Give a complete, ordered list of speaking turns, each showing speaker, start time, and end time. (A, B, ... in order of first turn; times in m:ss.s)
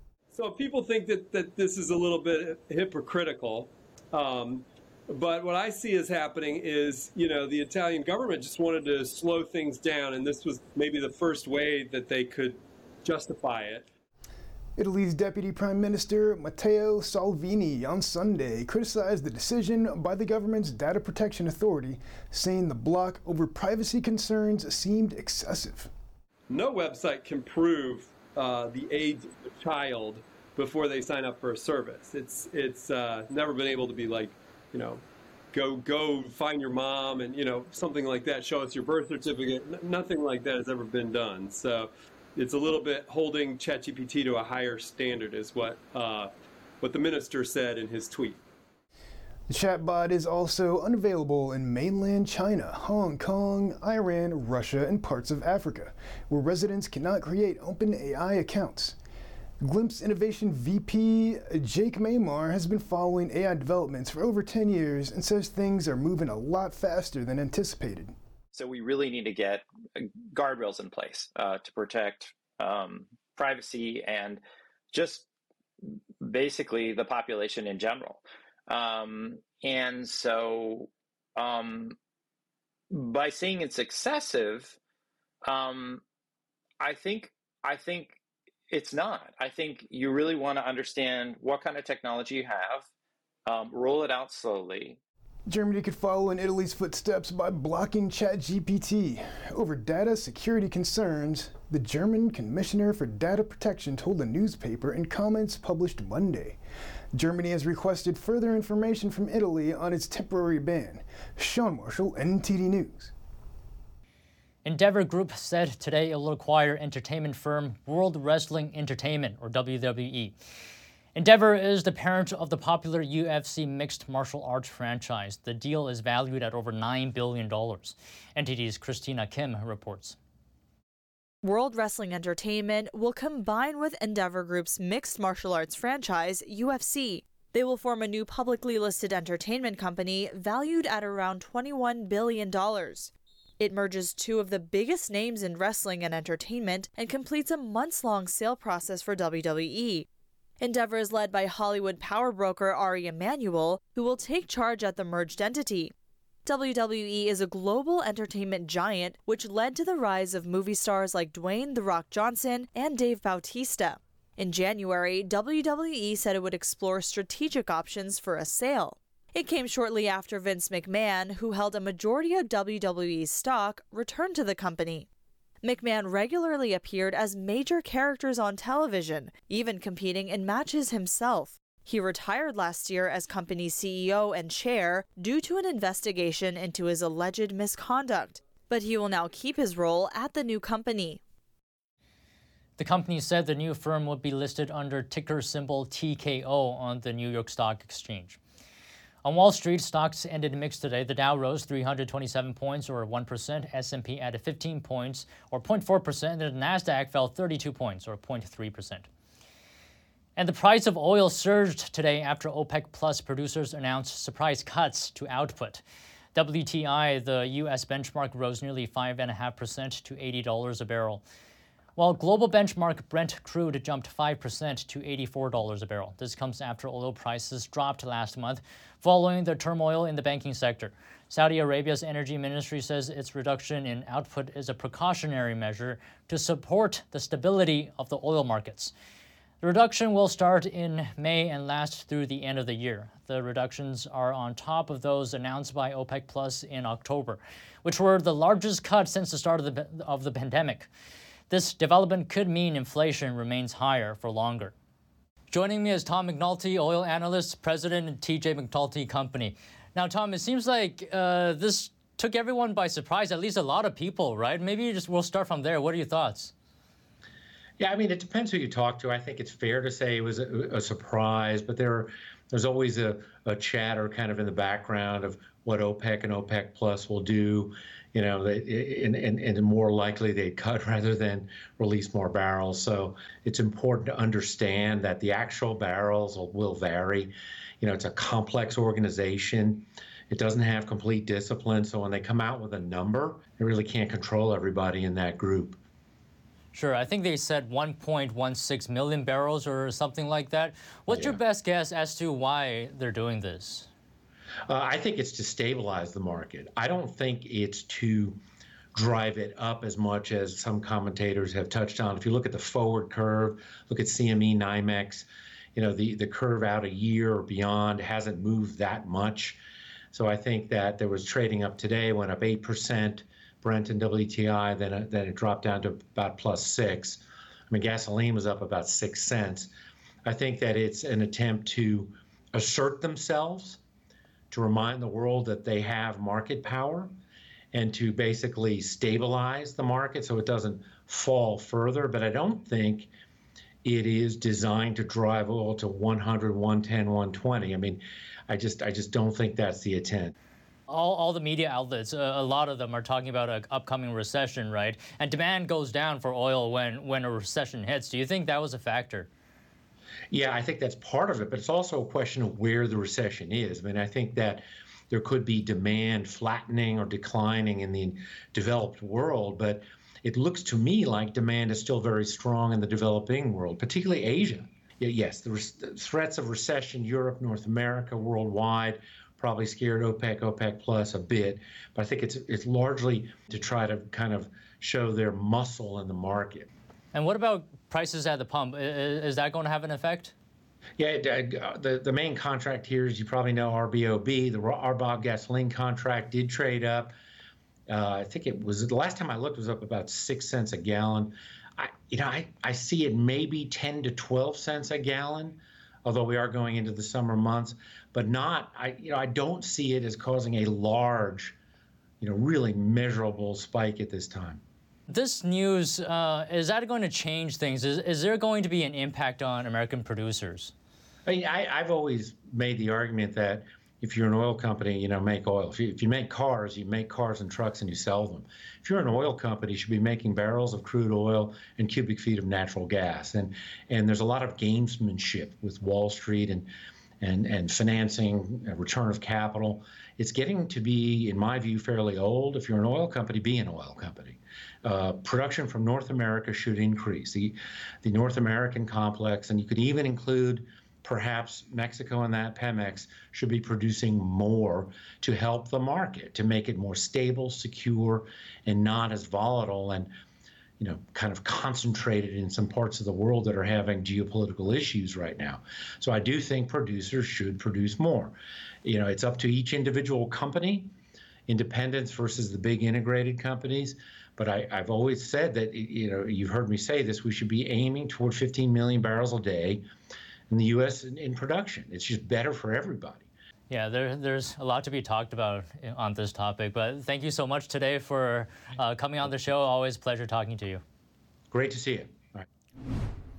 0:00.3-0:13.9 A
0:14.8-0:25.9 B
0:26.5-0:48.4 A
0:49.5-0:59.0 B
0:59.6-1:08.2 B
1:08.5-1:15.3 C
1:16.2-1:22.0 C
1:22.9-1:24.8 C
1:25.4-1:26.0 C
1:26.8-1:28.2 C
1:28.7-1:32.9 C
1:33.5-1:35.0 C
1:35.5-1:46.6 B
1:47.1-1:53.1 B
1:54.6-2:00.4 D
2:01.2-2:10.2 D
2:11.4-2:30.1 E
2:30.6-2:35.9 E
2:36.4-2:55.1 E
2:55.6-3:11.2 E
3:12.8-3:18.4 D
3:19.2-3:29.1 D
3:30.4-3:35.8 D
3:36.3-3:41.2 D
3:42.0-3:58.9 D
3:59.6-4:10.9 D
4:11.5-4:14.7 D
4:15.5-4:26.5 D
4:27.8-4:55.8 F
4:56.7-5:03.9 D
5:01.1-5:01.4 F
5:04.7-5:08.4 F
5:08.9-5:19.6 F
5:20.1-5:29.7 F
5:30.2-5:33.8 F
5:34.5-5:37.1 F
5:37.7-5:43.1 F
5:43.8-5:50.4 F
5:50.9-5:59.3 D
6:00.3-6:26.7 F
6:27.1-6:30.3 D
6:31.0-6:37.1 F
6:37.9-6:51.6 F
6:52.2-6:54.6 F
6:55.1-7:00.7 D
7:01.3-7:16.7 F
7:17.2-7:40.1 F
7:40.8-7:50.9 F
7:51.5-7:59.8 F
8:00.5-8:03.3 F
8:03.7-8:10.8 D
8:11.5-8:12.5 F